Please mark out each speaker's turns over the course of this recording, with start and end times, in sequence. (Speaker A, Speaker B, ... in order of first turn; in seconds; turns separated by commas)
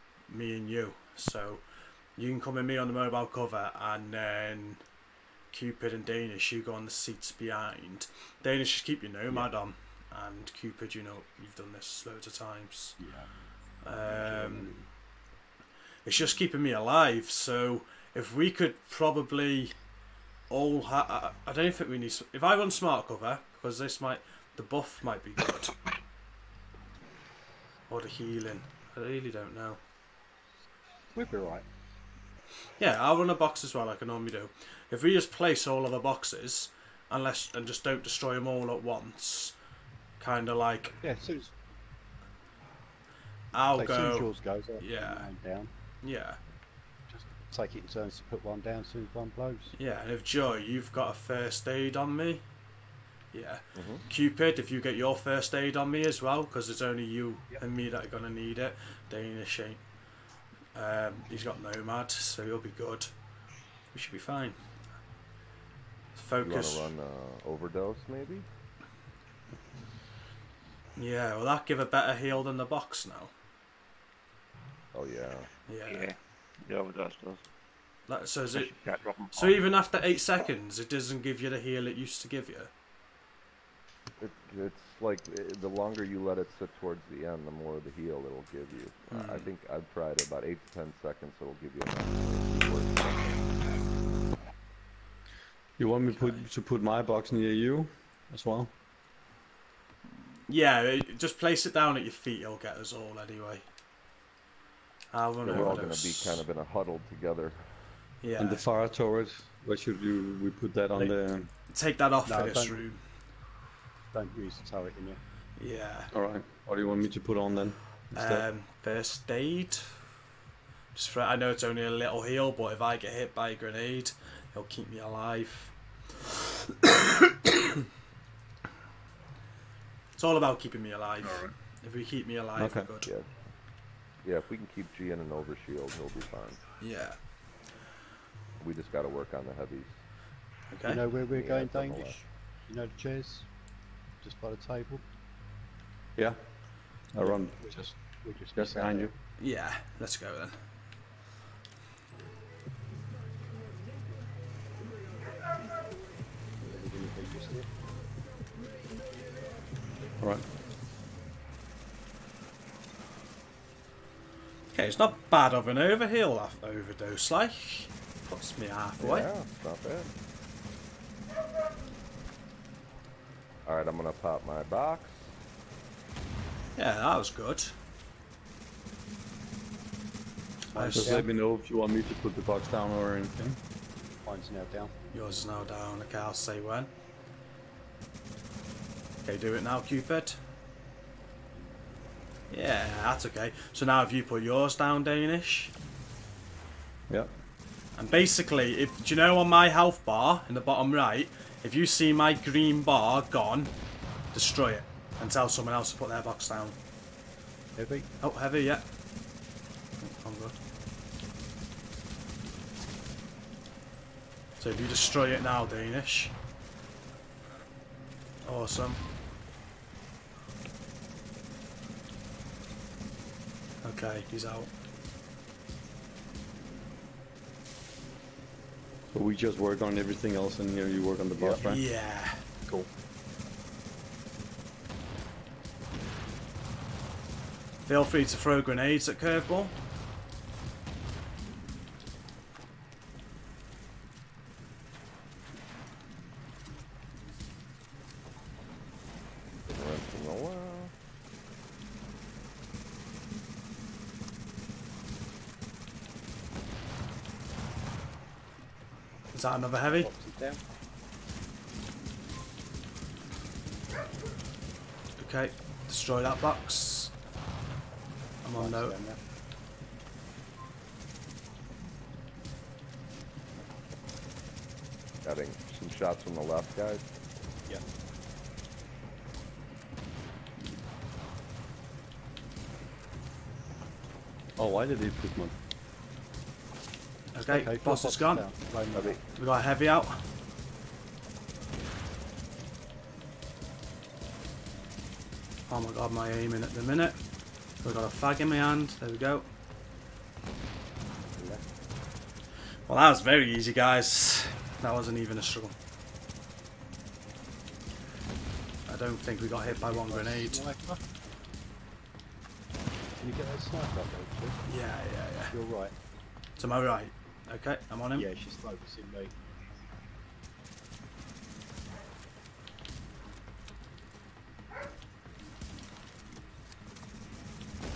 Speaker A: 0.3-1.6, Speaker A: 2.1-4.8, Speaker A: 5.5-13.0, Speaker B: 13.0-13.3, Speaker A: 13.8-14.7, Speaker B: 13.9-14.9, Speaker A: 16.0-19.7, Speaker A: 20.5-25.8, Speaker A: 27.9-29.8, Speaker B: 31.1-31.6, Speaker A: 32.8-39.5, Speaker A: 40.2-41.0, Speaker B: 41.0-41.5, Speaker A: 43.5-45.3, Speaker B: 43.7-45.7, Speaker A: 46.0-46.4, Speaker B: 47.1-49.7, Speaker A: 49.8-52.4, Speaker A: 53.3-59.8, Speaker C: 53.7-54.0, Speaker A: 60.7-63.1, Speaker A: 63.9-64.6, Speaker A: 66.1-66.9, Speaker C: 66.4-68.4, Speaker A: 71.0-73.3, Speaker C: 74.9-75.5, Speaker A: 75.7-76.1, Speaker D: 75.8-77.4, Speaker A: 78.1-78.7, Speaker D: 78.5-79.7, Speaker A: 79.3-82.7, Speaker C: 84.2-93.4, Speaker A: 89.1-89.5, Speaker E: 95.8-98.7, Speaker A: 96.1-96.4, Speaker A: 100.5-103.6, Speaker A: 105.1-106.4, Speaker C: 105.4-107.6, Speaker A: 108.2-108.7, Speaker E: 108.4-111.5, Speaker A: 111.7-113.0, Speaker B: 112.3-112.8, Speaker B: 114.1-115.2, Speaker A: 115.6-116.1, Speaker E: 116.1-118.4, Speaker A: 118.1-119.9, Speaker A: 120.9-125.7, Speaker A: 126.8-127.8, Speaker A: 130.2-133.1, Speaker E: 131.2-131.5, Speaker E: 132.6-132.9, Speaker C: 134.2-136.6, Speaker A: 136.8-137.2, Speaker C: 138.6-140.0, Speaker A: 140.7-141.0, Speaker B: 140.8-143.5, Speaker C: 141.3-142.2, Speaker B: 144.2-145.0, Speaker E: 147.1-147.9, Speaker B: 147.2-149.1, Speaker E: 148.5-149.1, Speaker A: 149.4-150.6, Speaker B: 156.6-157.7, Speaker A: 164.7-169.3, Speaker C: 169.0-170.1, Speaker C: 173.6-175.3, Speaker A: 176.8-177.7, Speaker A: 180.7-181.3, Speaker B: 180.7-181.3, Speaker E: 180.9-183.6, Speaker B: 184.2-185.0, Speaker A: 185.1-186.9, Speaker A: 189.2-190.4, Speaker A: 192.5-195.7, Speaker A: 197.9-203.7, Speaker A: 204.3-206.8, Speaker B: 207.8-208.1, Speaker A: 208.2-208.8, Speaker A: 210.0-210.5, Speaker A: 214.6-216.3, Speaker A: 218.4-219.0, Speaker A: 223.8-224.7, Speaker E: 229.1-231.8, Speaker A: 231.6-232.4, Speaker A: 237.9-239.7, Speaker C: 249.6-250.9, Speaker A: 259.3-260.1, Speaker B: 259.9-260.6, Speaker A: 265.2-267.1, Speaker A: 268.4-268.9, Speaker B: 268.6-269.2, Speaker C: 275.2-277.0, Speaker E: 284.6-285.5, Speaker A: 287.3-288.4, Speaker B: 287.4-289.2, Speaker A: 289.4-290.2, Speaker A: 295.7-297.2, Speaker A: 297.8-299.4, Speaker B: 301.3-301.7, Speaker A: 302.9-305.7, Speaker A: 308.9-310.6, Speaker B: 309.6-311.0, Speaker B: 313.2-314.6, Speaker A: 314.7-315.5, Speaker B: 315.5-315.9, Speaker A: 316.6-318.3, Speaker B: 318.1-319.3